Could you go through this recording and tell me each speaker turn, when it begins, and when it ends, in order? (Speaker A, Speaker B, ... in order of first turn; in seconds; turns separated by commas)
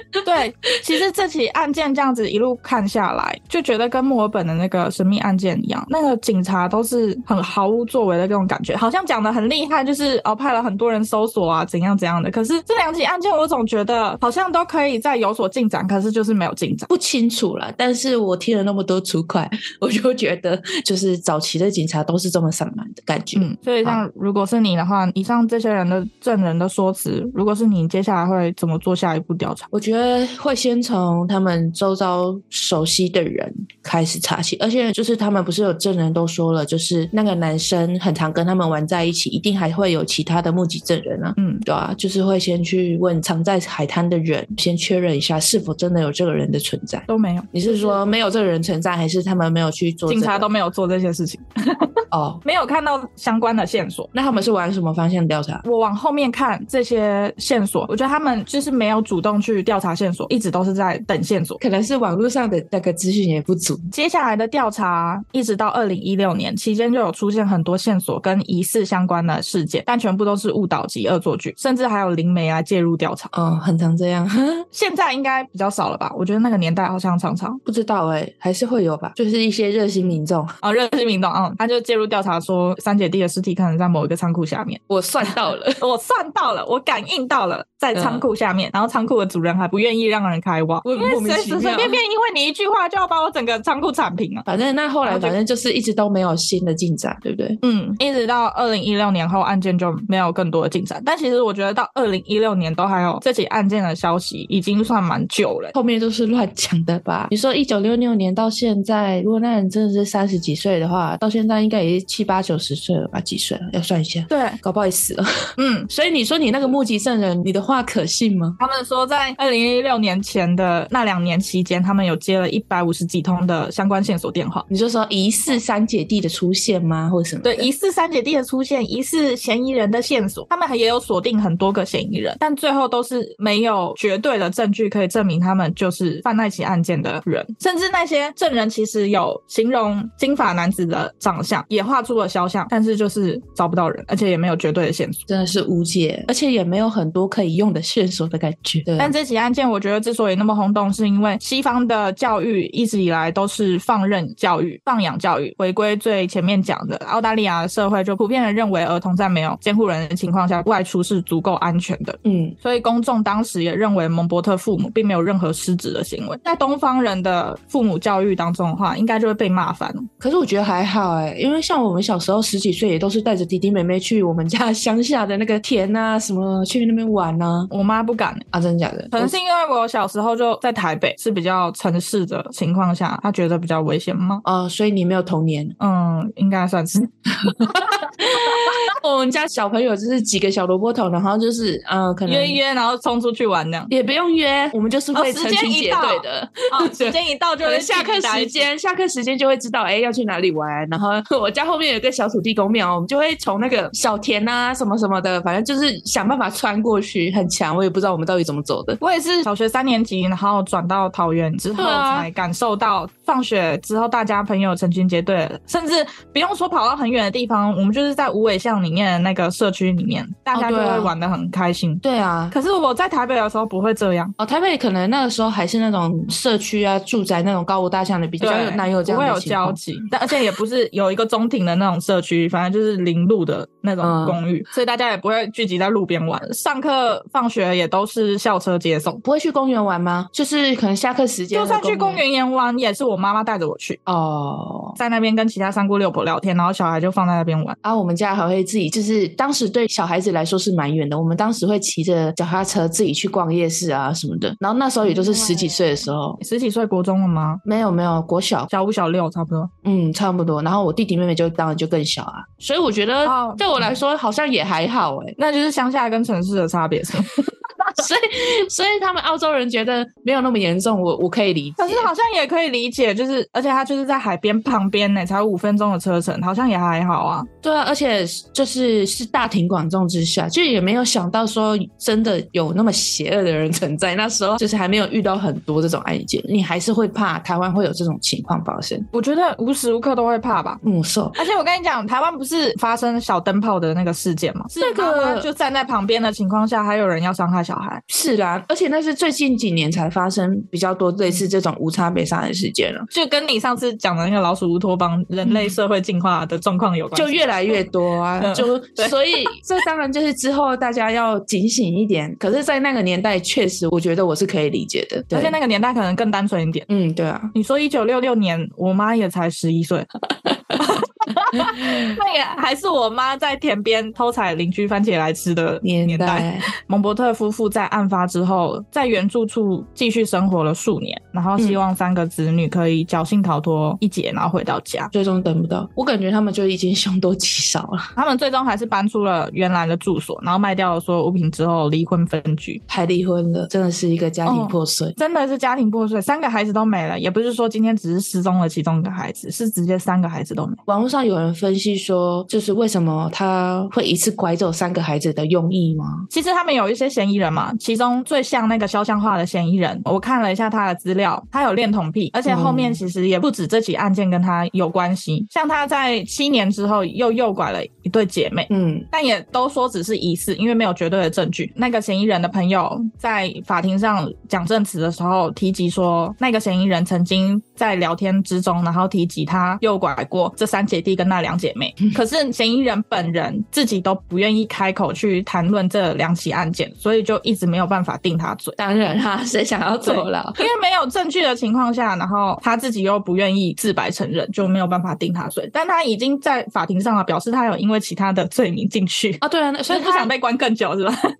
Speaker A: 0.2-16.9, Speaker B: 16.9-24.0, Speaker A: 23.3-29.7, Speaker B: 29.7-50.5, Speaker A: 41.4-41.6, Speaker A: 47.1-48.0, Speaker A: 50.1-54.1, Speaker B: 52.1-52.4, Speaker B: 54.1-55.6, Speaker A: 55.6-61.6, Speaker B: 61.6-63.9, Speaker A: 63.9-73.3, Speaker B: 73.3-74.7, Speaker A: 74.7-77.6, Speaker B: 77.6-80.5, Speaker A: 80.6-94.5, Speaker B: 84.9-85.8, Speaker B: 87.9-88.2, Speaker B: 90.8-92.0, Speaker B: 94.5-97.6, Speaker A: 95.0-95.3, Speaker A: 97.6-105.7, Speaker B: 105.7-115.3, Speaker A: 114.3-114.6, Speaker A: 115.6-115.9, Speaker B: 115.9-118.6, Speaker A: 118.6-124.7, Speaker B: 124.7-127.7, Speaker A: 127.4-145.2, Speaker B: 145.3-149.1, Speaker A: 149.0-170.1, Speaker B: 162.2-162.6, Speaker B: 170.2-177.7, Speaker A: 177.7-178.4, Speaker B: 178.5-179.3, Speaker A: 179.1-184.4, Speaker B: 184.4-185.7, Speaker A: 185.8-188.0, Speaker B: 187.4-192.6, Speaker A: 188.5-188.8, Speaker A: 192.2-193.9, Speaker B: 193.9-209.0, Speaker A: 195.1-198.7, Speaker A: 209.0-224.3, Speaker B: 211.8-212.3, Speaker B: 220.5-221.1, Speaker B: 222.0-222.6, Speaker B: 224.4-229.8, Speaker A: 228.4-239.2, Speaker B: 234.0-234.4, Speaker B: 239.2-242.2, Speaker A: 241.5-244.0, Speaker B: 244.1-245.0, Speaker A: 245.0-247.8, Speaker B: 247.8-256.4, Speaker A: 255.0-257.6, Speaker B: 257.6-258.7, Speaker A: 258.7-259.7, Speaker B: 259.8-265.3, Speaker A: 263.2-263.9, Speaker A: 265.4-267.6, Speaker B: 267.9-272.1, Speaker A: 271.8-277.5, Speaker B: 277.6-289.1, Speaker A: 289.1-290.8, Speaker B: 290.8-291.4, Speaker A: 291.3-298.0, Speaker B: 294.8-295.5, Speaker B: 298.1-303.1, Speaker A: 303.1-307.9, Speaker B: 305.4-305.7, Speaker B: 307.1-315.6, Speaker A: 308.4-309.6, Speaker A: 315.3-316.9, Speaker B: 316.9-317.5, Speaker A: 317.5-320.1, Speaker A: 320.8-335.1, Speaker B: 325.8-326.7, Speaker B: 335.1-338.1, Speaker A: 338.1-342.8, Speaker B: 342.9-345.1, Speaker A: 344.4-350.8, Speaker B: 350.9-356.3, Speaker A: 356.3-388.8, Speaker B: 362.5-363.0, Speaker B: 368.7-369.1, Speaker B: 388.8-390.6, Speaker A: 390.0-401.1, Speaker B: 399.4-400.3